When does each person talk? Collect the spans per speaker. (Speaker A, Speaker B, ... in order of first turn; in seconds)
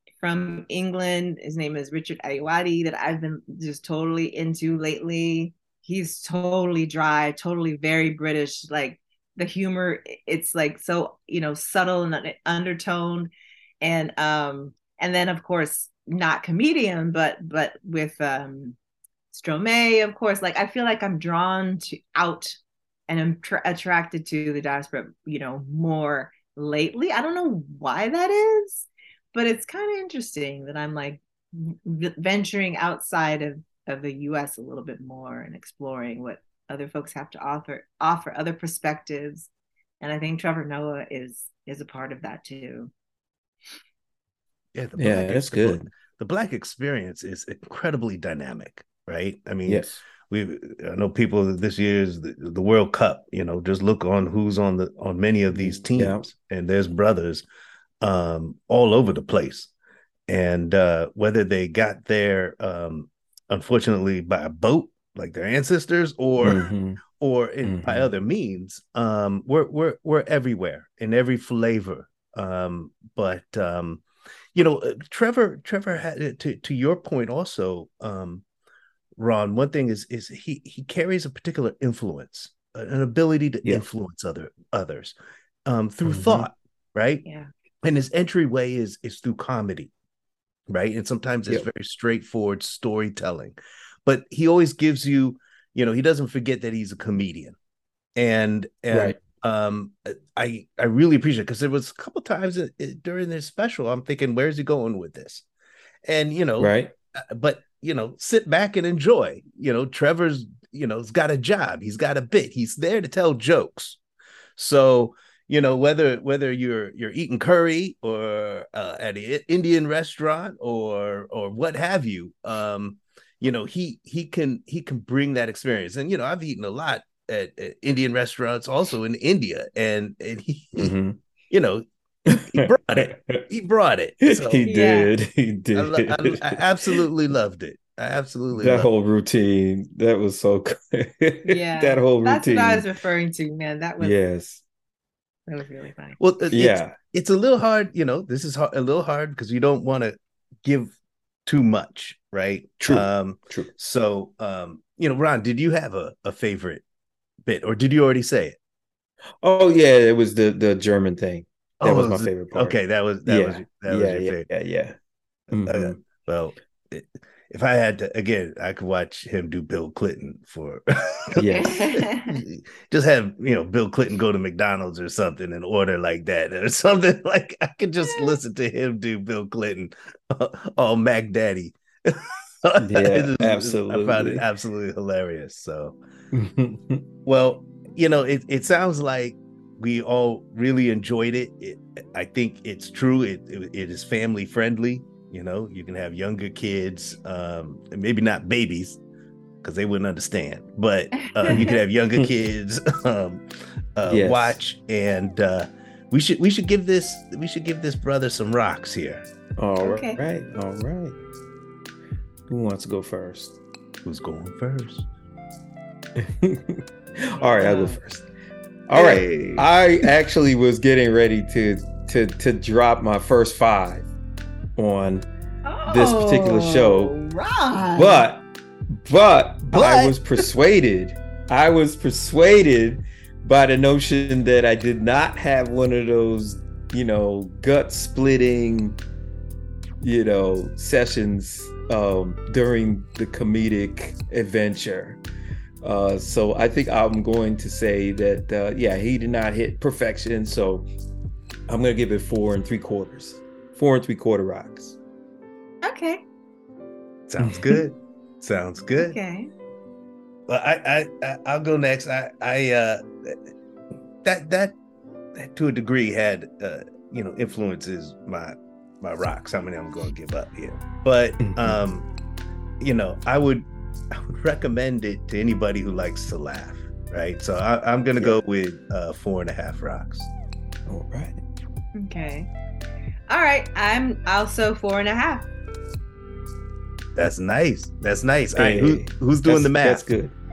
Speaker A: 0.2-18.8, 19.3-39.5, 40.0-42.9, 134.7-135.2, 141.4-144.2, 145.5-146.2, 171.5-172.4, 178.0-178.4, 201.2-201.8, 209.8-210.2, 217.6-218.0, 225.7-228.3, 255.8-256.2, 259.0-259.5, 281.9-282.5, 283.3-285.5
Speaker B: 44.8-57.4, 58.0-59.7, 60.3-74.0, 74.5-78.4, 79.2-87.2, 87.8-89.9, 90.7-97.6, 98.2-105.5, 106.1-106.8, 107.3-114.0, 114.6-130.9, 131.5-131.8, 132.5-134.7, 135.7-138.9, 146.2-150.9, 151.5-156.8, 157.5-158.6, 161.8-164.5, 165.5-186.0, 187.2-199.0, 199.6-203.4, 204.0-209.2, 214.1-215.1, 218.9-220.1, 229.7-230.2, 257.3-259.2, 260.5-263.4, 264.2-264.8, 265.4-272.1, 272.8-280.3, 287.2-290.1
Speaker C: 45.0-45.9, 49.7-50.0, 55.5-56.2, 66.4-67.0, 67.6-68.1, 86.0-86.5, 98.9-99.2, 106.6-106.9, 130.8-131.2, 132.3-133.4, 134.2-137.0, 138.5-142.9, 144.0-144.6, 146.5-146.9, 152.8-153.7, 159.4-164.9, 165.5-166.0, 171.4-171.7, 182.8-184.4, 186.3-187.0, 201.5-202.3, 204.1-204.6, 209.6-211.2, 212.5-213.6, 216.2-216.8, 217.4-218.3, 218.9-224.1, 224.8-225.3, 225.9-227.2, 227.9-239.0, 240.0-245.2, 245.8-250.9, 251.7-255.0, 257.4-257.8, 271.4-271.8, 280.9-281.4, 288.6-290.4